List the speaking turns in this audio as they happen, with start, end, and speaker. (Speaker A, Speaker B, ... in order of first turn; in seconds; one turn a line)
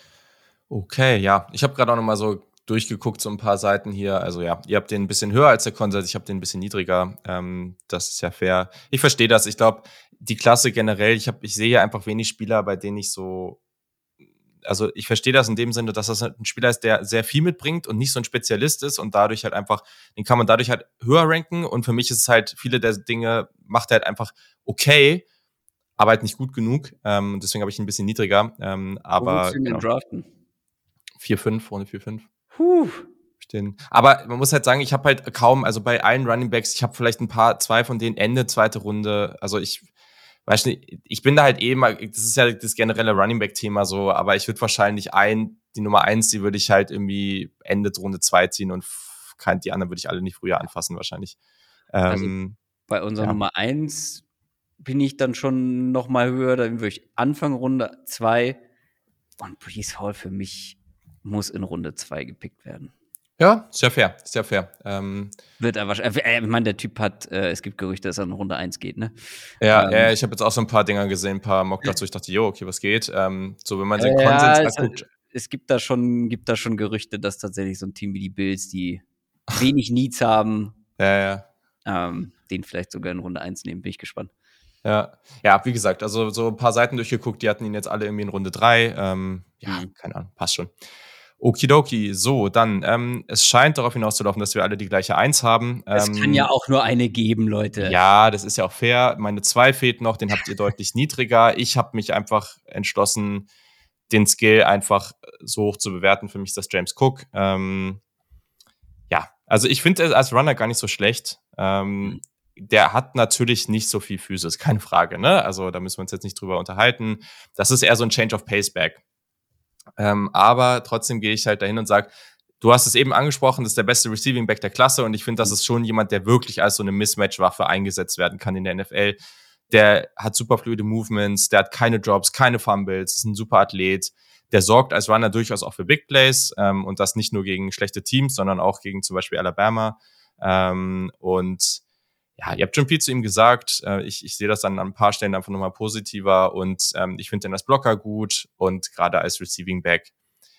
Speaker A: 0.7-13.6
Speaker A: 14.6-25.2
Speaker A: 26.0-29.8
Speaker B: 29.2-30.3
Speaker A: 31.2-32.2
Speaker B: 32.5-33.0
Speaker A: 33.4-39.9
Speaker A: 40.5-51.4
Speaker A: 51.9-52.5
Speaker B: 52.9-54.2
Speaker B: 54.8-58.6
Speaker B: 59.4-62.9
Speaker A: 63.4-65.3
Speaker B: 65.6-69.2
Speaker A: 69.6-75.0
Speaker B: 69.7-70.1
Speaker B: 74.0-80.8
Speaker A: 81.0-81.5
Speaker B: 81.8-84.3
Speaker A: 84.8-90.7
Speaker A: 91.4-96.5
Speaker B: 95.9-98.0
Speaker A: 97.8-103.5
Speaker A: 104.1-108.0
Speaker A: 109.1-119.0
Speaker A: 120.0-129.2
Speaker A: 129.7-141.8
Speaker A: 142.4-150.1